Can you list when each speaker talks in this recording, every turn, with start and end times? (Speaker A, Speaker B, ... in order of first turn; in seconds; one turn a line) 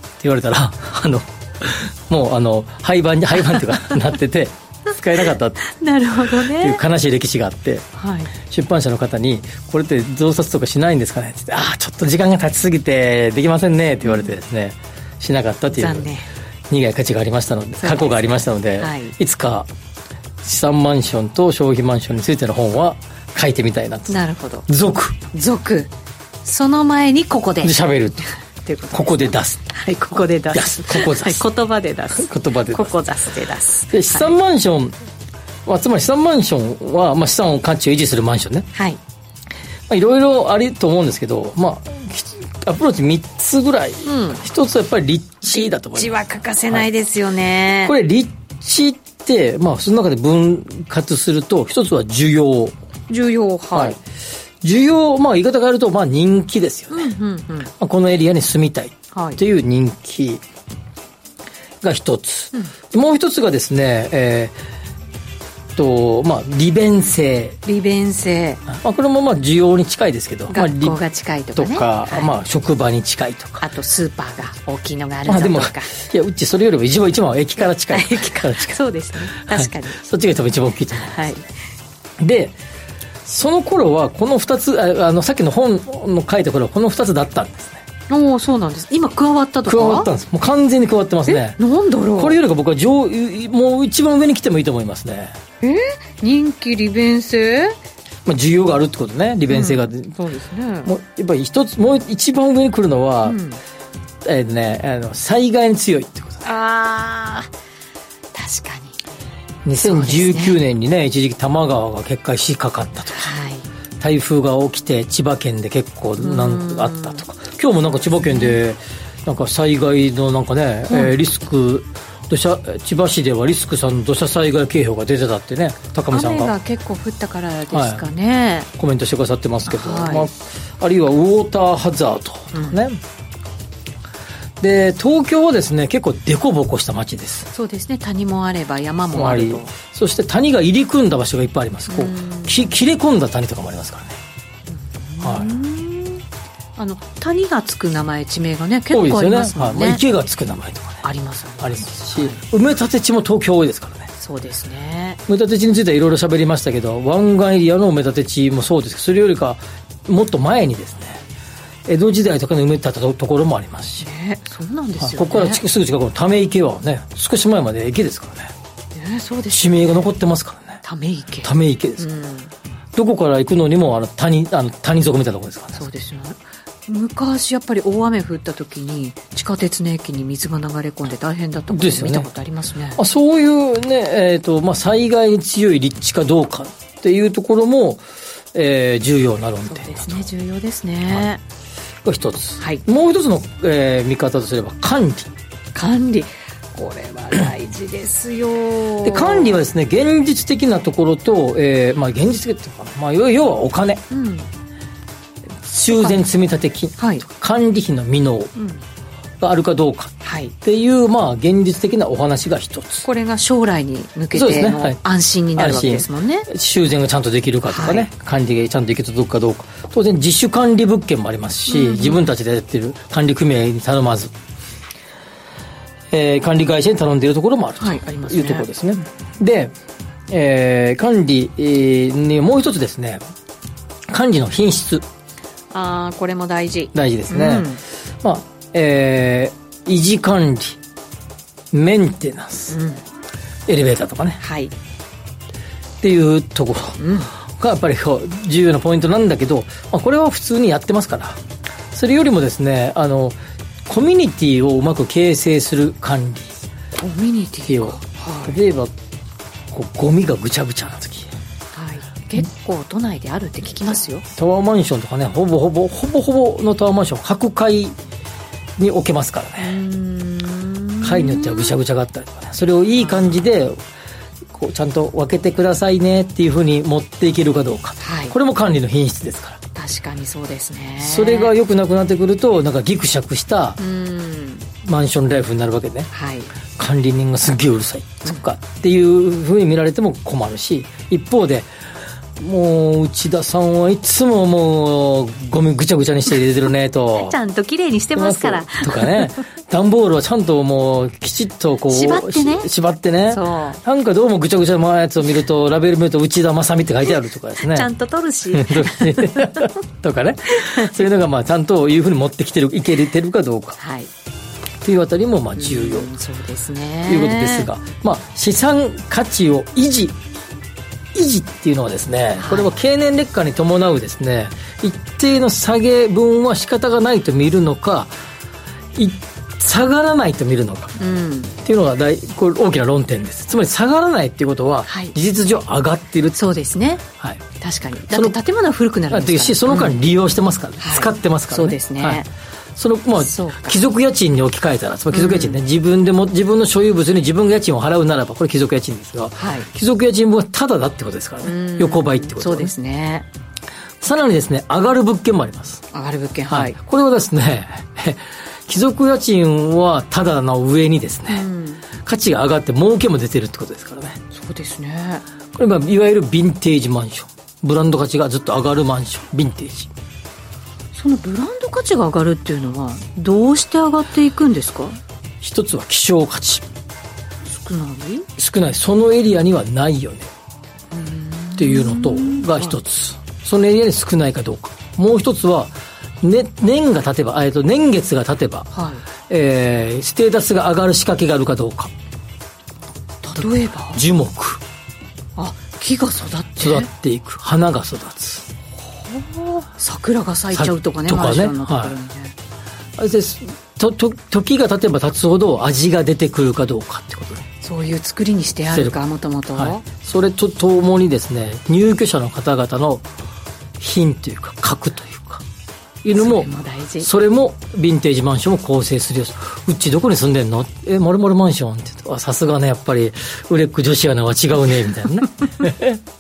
Speaker A: 0.2-7.8
Speaker B: 5.7-6.8
Speaker B: 8.0-8.3
Speaker A: 8.4-16.1
Speaker B: 14.0-14.3
Speaker B: 15.7-16.3
Speaker A: 16.7-19.7
Speaker B: 17.8-19.1
Speaker A: 20.4-25.2
Speaker B: 24.1-24.7
Speaker B: 25.3-25.9
Speaker B: 26.4-27.8
Speaker A: 27.6-28.2
Speaker B: 28.6-34.3
Speaker A: 28.9-29.7
Speaker A: 30.5-31.5
Speaker A: 32.1-32.9
Speaker A: 33.9-34.9
Speaker A: 35.7-38.7
Speaker B: 38.8-39.0
Speaker A: 39.9-46.9
Speaker B: 44.0-44.4
Speaker B: 45.4-47.9
Speaker A: 47.8-52.8
Speaker B: 53.1-54.0
Speaker A: 54.6-57.1
Speaker B: 56.9-57.7
Speaker A: 57.8-60.4
Speaker B: 59.1-59.4
Speaker A: 61.8-64.6
Speaker A: 65.8-67.6
Speaker B: 67.7-68.6
Speaker A: 68.7-71.0
Speaker B: 70.5-72.3
Speaker A: 71.6-73.6
Speaker B: 73.6-75.9
Speaker A: 75.3-78.8
Speaker B: 77.9-80.0
Speaker A: 79.4-81.3
Speaker B: 81.1-81.5
Speaker A: 82.2-82.6
Speaker A: 83.3-87.8
Speaker B: 88.1-90.1
Speaker A: 89.7-91.6
Speaker B: 91.3-92.4
Speaker A: 92.2-95.4
Speaker B: 95.6-97.8
Speaker A: 98.2-100.1
Speaker B: 99.5-100.9
Speaker A: 100.8-103.4
Speaker B: 103.2-103.6
Speaker A: 104.2-106.4
Speaker B: 106.4-107.5
Speaker B: 108.3-109.0
Speaker A: 109.7-113.3
Speaker B: 109.8-110.6
Speaker B: 113.2-113.7
Speaker A: 114.0-126.5
Speaker B: 116.2-117.2
Speaker B: 118.2-118.6
Speaker B: 126.1-128.7
Speaker A: 127.7-128.1
Speaker A: 128.8-133.0
Speaker B: 129.7-130.3
Speaker B: 132.5-132.8
Speaker A: 134.6-137.5
Speaker B: 137.5-139.7
Speaker A: 139.1-144.2
Speaker B: 141.9-142.8
Speaker B: 144.7-146.2
Speaker A: 145.2-145.5
Speaker B: 146.8-150.0
Speaker A: 148.9-151.0
Speaker B: 151.0-152.4
Speaker A: 151.6-154.1
Speaker B: 154.2-155.2
Speaker A: 155.3-161.2
Speaker A: 161.9-164.1
Speaker B: 164.0-165.6
Speaker A: 165.0-168.5
Speaker B: 168.9-170.1
Speaker A: 169.5-170.8
Speaker B: 170.8-172.5
Speaker A: 171.4-172.1
Speaker A: 172.9-175.8
Speaker B: 175.7-183.0
Speaker A: 181.7-182.3
Speaker A: 183.0-190.2
Speaker B: 189.7-191.4
Speaker A: 192.0-195.3
Speaker B: 195.7-199.6
Speaker A: 199.0-204.0
Speaker B: 204.1-204.5
Speaker A: 205.6-208.5
Speaker B: 205.9-206.2
Speaker B: 207.0-207.2
Speaker B: 208.6-208.8
Speaker A: 209.4-213.1
Speaker B: 210.2-210.5
Speaker B: 213.1-216.5
Speaker A: 214.3-215.0
Speaker A: 215.6-224.3
Speaker B: 217.7-218.1
Speaker B: 221.7-222.2
Speaker A: 226.1-229.7
Speaker B: 227.8-228.7
Speaker A: 230.3-233.2
Speaker A: 234.1-235.1
Speaker B: 235.7-237.8
Speaker A: 236.9-237.7
Speaker A: 238.2-240.8
Speaker A: 241.7-242.8
Speaker B: 242.7-243.0
Speaker A: 243.7-244.4
Speaker B: 244.4-244.7
Speaker A: 246.0-251.4
Speaker B: 247.0-247.3
Speaker A: 251.9-256.5
Speaker B: 257.0-258.5
Speaker A: 257.7-258.9
Speaker A: 259.7-261.3
Speaker B: 261.7-264.2
Speaker A: 264.4-268.0
Speaker A: 268.8-269.8
Speaker B: 269.6-271.8
Speaker A: 271.0-273.8
Speaker B: 273.0-273.3
Speaker A: 274.5-279.6
Speaker B: 278.0-278.4
Speaker B: 279.8-281.5
Speaker A: 281.0-283.8
Speaker B: 283.8-284.7
Speaker A: 284.8-286.1
Speaker B: 286.1-286.5
Speaker A: 286.8-291.7
Speaker A: 292.4-297.4
Speaker B: 297.2-299.2
Speaker A: 298.2-307.9
Speaker B: 301.9-302.7
Speaker B: 303.3-303.8
Speaker B: 307.7-309.7
Speaker A: 308.5-313.8
Speaker B: 310.5-310.9
Speaker B: 313.8-314.1
Speaker A: 314.8-316.1
Speaker B: 315.6-317.7
Speaker A: 317.1-320.2
Speaker A: 321.1-328.1
Speaker B: 322.4-322.7
Speaker A: 328.9-330.9
Speaker B: 331.0-331.5
Speaker A: 331.6-336.4
Speaker B: 334.9-335.1
Speaker B: 336.4-337.0
Speaker B: 337.6-339.9
Speaker A: 338.1-338.4
Speaker A: 339.1-352.7
Speaker B: 340.8-342.3
Speaker B: 343.2-343.8
Speaker B: 345.1-345.6
Speaker B: 349.4-349.7
Speaker B: 351.4-353.3
Speaker A: 354.0-355.8
Speaker B: 355.9-356.8
Speaker A: 356.5-361.5
Speaker B: 361.3-361.8
Speaker A: 362.1-364.2
Speaker B: 364.3-365.2
Speaker A: 365.5-369.9
Speaker B: 370.9-375.0
Speaker A: 375.4-376.6
Speaker B: 377.5-378.3
Speaker A: 378.4-380.3
Speaker B: 380.9-382.8
Speaker A: 381.6-388.7
Speaker B: 388.7-389.0
Speaker A: 389.3-391.9
Speaker B: 393.2-394.0
Speaker A: 393.4-394.6
Speaker B: 395.4-396.9
Speaker A: 396.6-398.5
Speaker B: 399.1-402.3
Speaker A: 400.5-402.0
Speaker A: 403.0-407.4
Speaker B: 407.6-409.9
Speaker A: 408.7-409.0
Speaker A: 409.6-413.1
Speaker A: 413.8-415.4
Speaker A: 416.0-416.5
Speaker B: 416.1-417.1
Speaker A: 417.0-426.0